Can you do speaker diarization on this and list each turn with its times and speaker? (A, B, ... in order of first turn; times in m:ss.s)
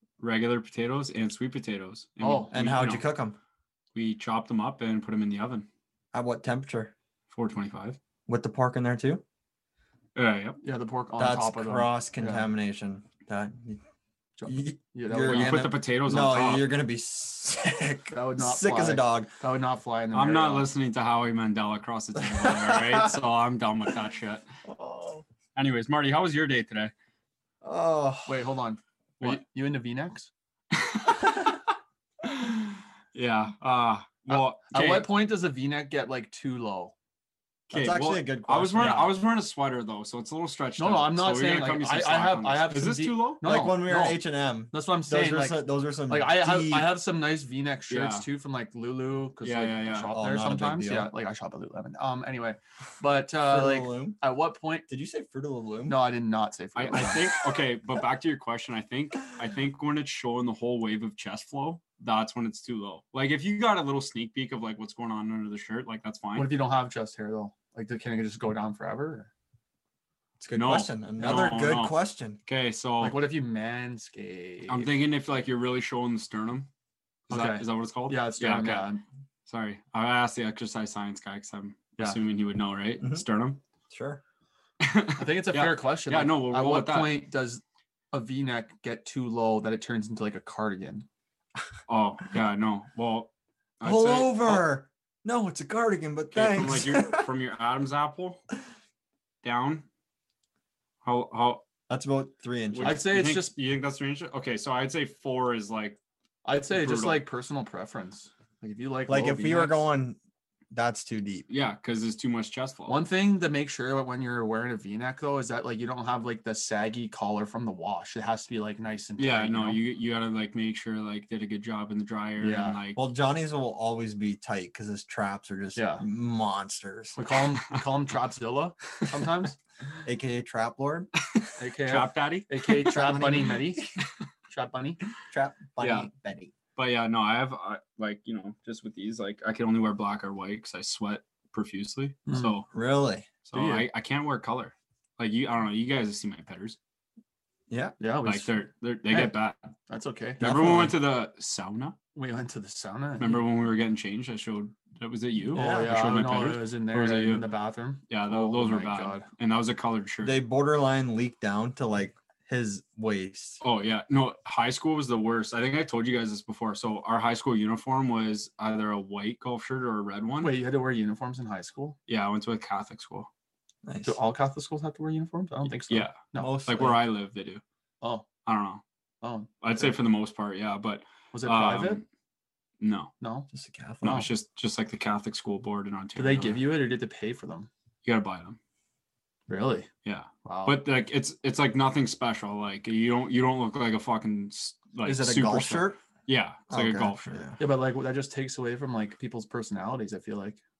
0:00.2-0:03.0 A
0:02.2-0:02.5 B
0:02.5-0:03.4 C
0:03.9-0:05.7 A
0:06.1-0:06.9 C
0:07.3-0:08.0 A
0:08.3-0:09.2 C
0:10.1-0:10.6 A
0:10.6-0:12.4 B
0:11.2-0:13.8 C
0:14.4-0:15.7 B
0:14.4-0:19.3 C
0:15.2-0:16.7 A
0:18.1-0:20.7 B
0:20.1-0:24.4 A
0:22.2-0:23.1 C
0:24.6-0:25.2 C
0:25.6-0:26.9 A
0:27.6-0:28.4 C
0:28.3-0:30.3 B
0:30.7-0:31.5 A
0:32.2-0:35.1 A
0:34.3-0:36.9 B
0:37.7-0:39.0 C
0:37.7-0:43.4 A
0:38.8-0:39.1 B
0:40.8-0:44.2 B
0:43.4-0:46.9 C
0:44.7-0:54.8 B
0:47.9-0:48.3 A
0:49.4-0:50.1 A
0:50.1-0:51.1 C
0:53.4-0:54.2 C
0:54.9-0:56.0 C
0:55.9-0:57.2 B
0:56.7-1:06.5 A
1:06.3-1:09.3 B
1:10.4-1:12.4 C
1:10.5-1:13.2 A
1:13.0-1:14.9 B
1:14.7-1:16.7 A
1:17.3-1:18.9 A
1:17.3-1:19.0 B
1:19.5-1:23.6 A
1:23.9-1:24.2 C
1:24.8-1:27.2 A
1:25.2-1:31.0 B
1:31.9-1:34.7 A
1:33.8-1:37.3 C
1:36.3-1:38.4 A
1:39.4-1:39.8 A
1:41.0-1:41.6 A
1:41.9-1:43.0 C
1:42.7-1:46.0 A
1:42.8-1:43.5 B
1:46.4-1:49.9 B
1:46.7-1:47.2 A
1:49.1-1:50.2 C
1:50.7-1:51.5 C
1:51.5-1:53.0 A
1:52.9-1:59.8 B
1:59.2-2:03.0 A
2:02.4-2:02.8 B
2:02.9-2:07.2 C
2:05.8-2:06.0 B
2:07.2-2:09.6 B
2:10.0-2:11.1 C
2:11.6-2:13.8 B
2:11.9-2:12.5 A
2:12.8-2:13.9 C
2:14.5-2:15.0 B
2:15.3-2:16.5 C
2:15.8-2:16.1 A
2:16.8-2:22.7 A
2:22.3-2:22.5 B
2:22.7-2:23.3 C
2:23.4-2:26.8 A
2:23.5-2:23.9 B
2:27.7-2:28.0 C
2:28.0-2:29.3 B
2:28.2-2:29.6 A
2:29.9-2:30.4 B
2:30.4-2:31.0 C
2:30.4-2:32.0 A
2:32.1-2:33.4 B
2:33.2-2:37.4 A
2:35.5-2:39.3 B
2:35.5-2:36.0 C
2:38.1-2:40.4 A
2:40.2-2:43.6 C
2:43.6-2:50.5 A
2:50.4-2:52.0 B
2:52.1-2:53.3 A
2:53.8-2:54.2 C
2:54.0-2:56.5 B
2:55.9-2:57.6 A
2:56.4-2:57.0 C
2:58.0-2:58.3 B
2:58.4-2:58.8 A
2:59.2-3:00.0 B
2:59.6-3:02.0 A
3:01.3-3:02.0 B
3:02.8-3:03.1 A
3:03.2-3:03.5 B
3:03.5-3:04.3 C
3:04.0-3:06.6 A
3:06.2-3:07.7 B
3:08.0-3:08.6 A
3:09.5-3:09.9 B
3:10.0-3:17.3 A
3:10.4-3:10.8 B
3:15.0-3:16.0 C
3:16.7-3:17.6 C
3:17.6-3:20.6 B